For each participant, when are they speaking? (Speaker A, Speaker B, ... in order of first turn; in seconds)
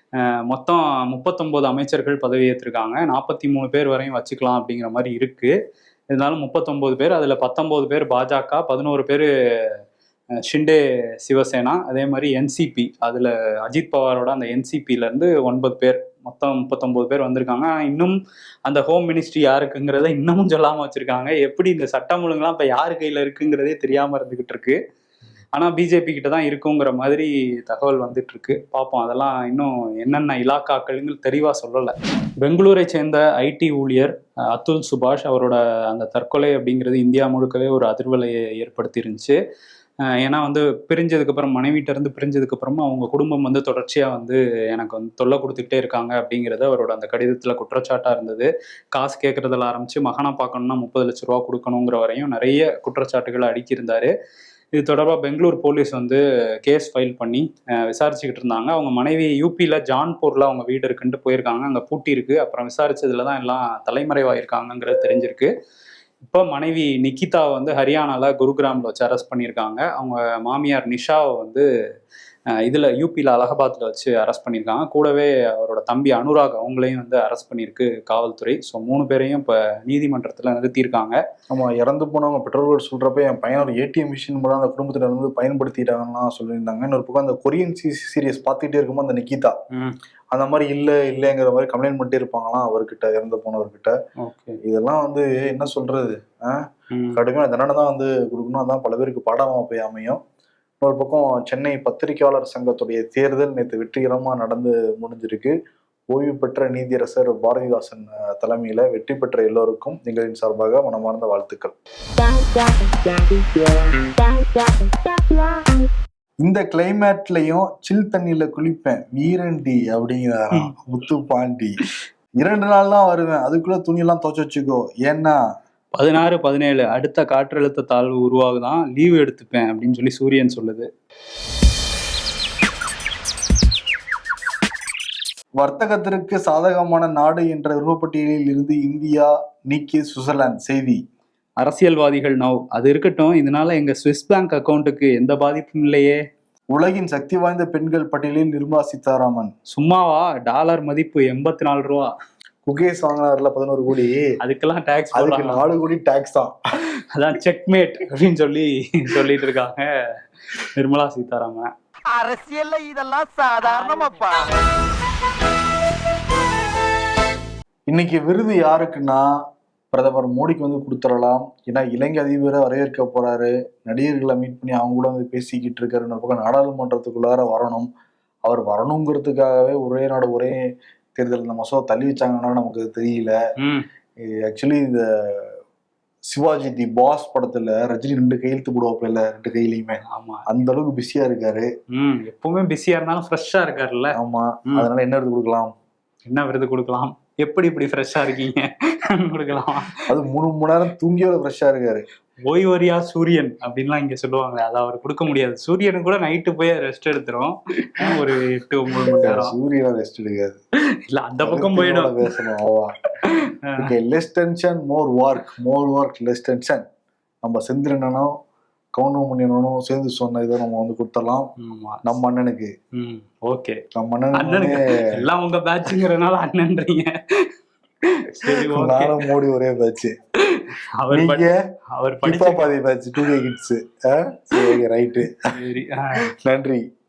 Speaker A: 0.2-5.5, 6.1-9.3, 10.4-24.8, 25.5-39.4, 40.1-54.1, 54.8-65.5, 66.2-71.7, 72.5-81.2, 94.2-94.6, 96.9-97.2, 126.0-130.9, 141.6-146.2, 149.7-152.1, 154.4-155.6, 157.1-159.9, 160.5-161.7, 183.6-183.8, 190.1-190.4, 191.9-194.2, 196.2-200.1, 202.4-209.6, 210.9-212.3, 213.2-213.9, 221.6-222.1, 222.9-223.8, 224.3-227.5, 228.0-229.3, 230.4-232.7, 234.5-234.8, 235.5-236.3
Speaker B: 81.5-89.6, 90.3-93.9, 94.6-100.2, 100.8-105.5, 106.1-111.7, 116.4-121.8, 122.4-125.4, 135.6-141.0, 146.7-149.5, 152.6-154.3, 155.1-156.6, 167.9-169.3, 169.9-177.9, 178.4-180.6, 181.2-183.4, 184.2-185.6, 186.3-191.7, 194.1-195.7, 200.1-202.1, 209.1-210.6, 211.4-212.9, 213.8-216.8, 217.4-218.3, 218.9-221.5, 222.0-222.7, 223.9-225.2, 228.4-230.2, 231.1-231.6, 232.2-235.5, 236.2-236.8
Speaker C: 162.1-164.5